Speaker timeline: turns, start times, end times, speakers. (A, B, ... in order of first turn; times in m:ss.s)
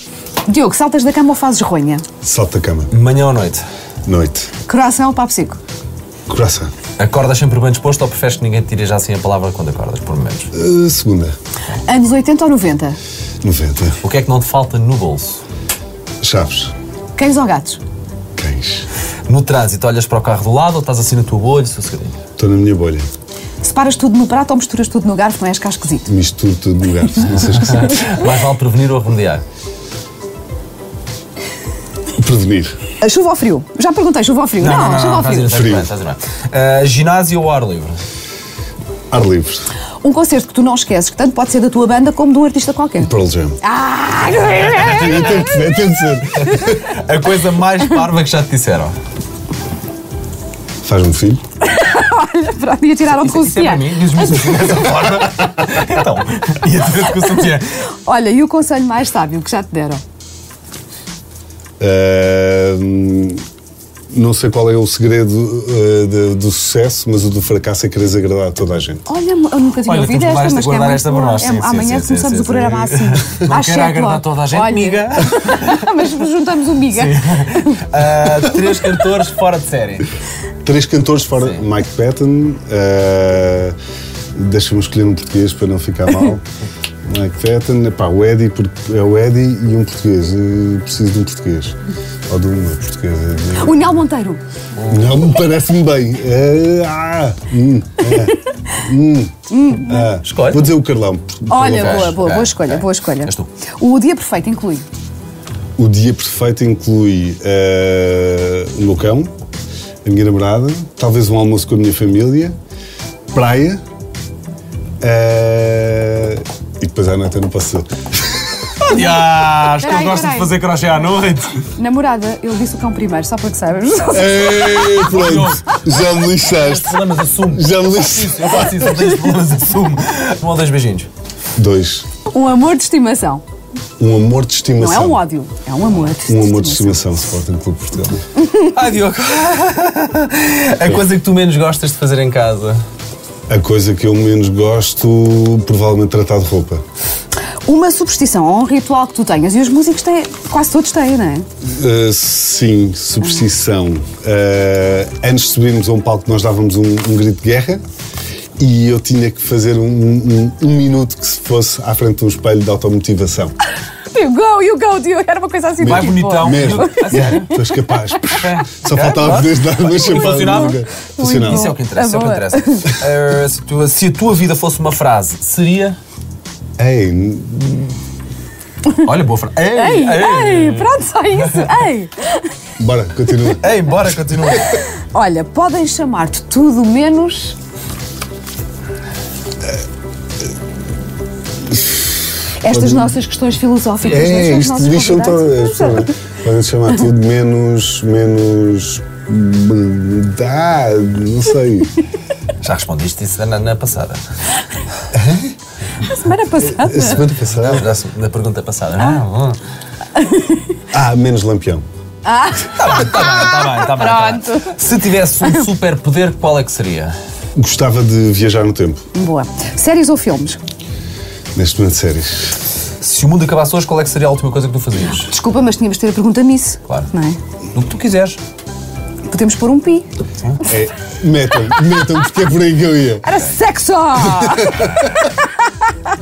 0:00.4-0:02.0 A
0:02.2-0:02.9 B
0:02.9-0:03.6 C
0:04.0-0:04.5 B
0:04.6-0:05.6 A
0:06.3-0:06.7 B
0:07.0-0:10.5 C
0:10.5-0:11.4 B
0:11.8-0:13.0 A
0:13.4-0:14.0 B
0:14.0-0:15.4 C
0:16.2-0:16.7 B
0:17.2-0:17.8 A
0:18.4-0:18.9 B
0:19.3-0:22.2 C
0:22.4-0:23.0 B
0:23.6-0:26.1 A
0:26.1-0:28.1 B
0:27.5-0:29.4 C
0:32.2-0:32.8 B
0:33.0-0:35.6 A
0:34.6-0:38.0 C
0:35.5-0:35.9 B
0:39.1-0:39.7 B
0:40.0-0:45.4 A
0:43.0-0:43.6 B
0:44.6-0:46.8 B
0:44.6-0:45.4 C
0:46.4-0:49.0 C
0:50.8-0:51.4 B
0:51.6-0:54.6 A
0:53.2-0:57.7 C
0:58.0-1:00.0 A
1:01.8-1:03.4 B
1:04.1-1:09.0 B
1:09.0-1:17.8 A
1:09.8-1:16.2 C
1:16.8-1:20.1 C
1:20.6-1:23.8 B
1:21.4-1:21.7 C
1:24.3-1:26.4 B
1:27.0-1:31.8 B
1:32.3-1:33.9 B
1:33.6-1:34.4 A
1:34.8-1:35.1 C
1:34.9-1:42.2 B
1:39.5-1:40.1 A
1:40.2-1:40.7 C
1:41.5-1:44.8 A
1:41.6-1:43.5 C
1:45.8-1:49.3 B
1:50.0-1:52.6 B
1:53.3-1:53.8 B
1:55.0-1:58.5 B
1:58.8-2:01.6 C
1:59.8-2:00.6 A
2:01.7-2:05.0 A
2:04.1-2:09.0 B
2:05.0-2:11.1 C
2:11.6-2:12.1 B
2:12.2-2:13.4 A
2:14.0-2:15.2 B
2:14.8-2:17.0 A
2:16.2-2:18.2 B
2:18.5-2:22.8 C
2:23.5-2:26.8 B
2:27.6-2:31.4 A
2:31.6-2:37.8 B
2:38.6-2:43.5 B
2:44.1-2:48.4 A
2:45.8-2:51.7 B
2:45.8-2:47.5 C
2:48.3-2:50.8 C
2:50.0-2:53.0 A
2:51.4-2:56.0 C
2:56.8-2:57.9 B
2:59.0-3:01.8 C
2:59.7-3:02.4 A
3:02.8-3:04.1 B
3:03.6-3:04.8 C
3:04.7-3:07.6 A
3:11.7-3:13.2 B
3:12.6-3:16.1 A
3:14.0-3:21.9 B
3:22.6-3:24.2 C
3:25.1-3:25.5 B
3:26.0-3:27.2 A
3:26.6-3:27.9 B
3:27.5-3:29.6 C
3:30.2-3:30.6 A
3:30.9-3:31.8 B
3:32.2-3:34.8 A
3:32.8-3:37.1 C
3:37.6-3:39.0 B
3:39.1-3:40.6 A
3:41.5-3:42.6 B
3:43.0-3:45.3 C
3:45.1-3:47.4 A
3:47.7-3:48.4 C
3:49.3-3:50.0 A
3:50.6-3:53.4 B
3:53.2-3:55.5 A
3:54.4-3:54.8 B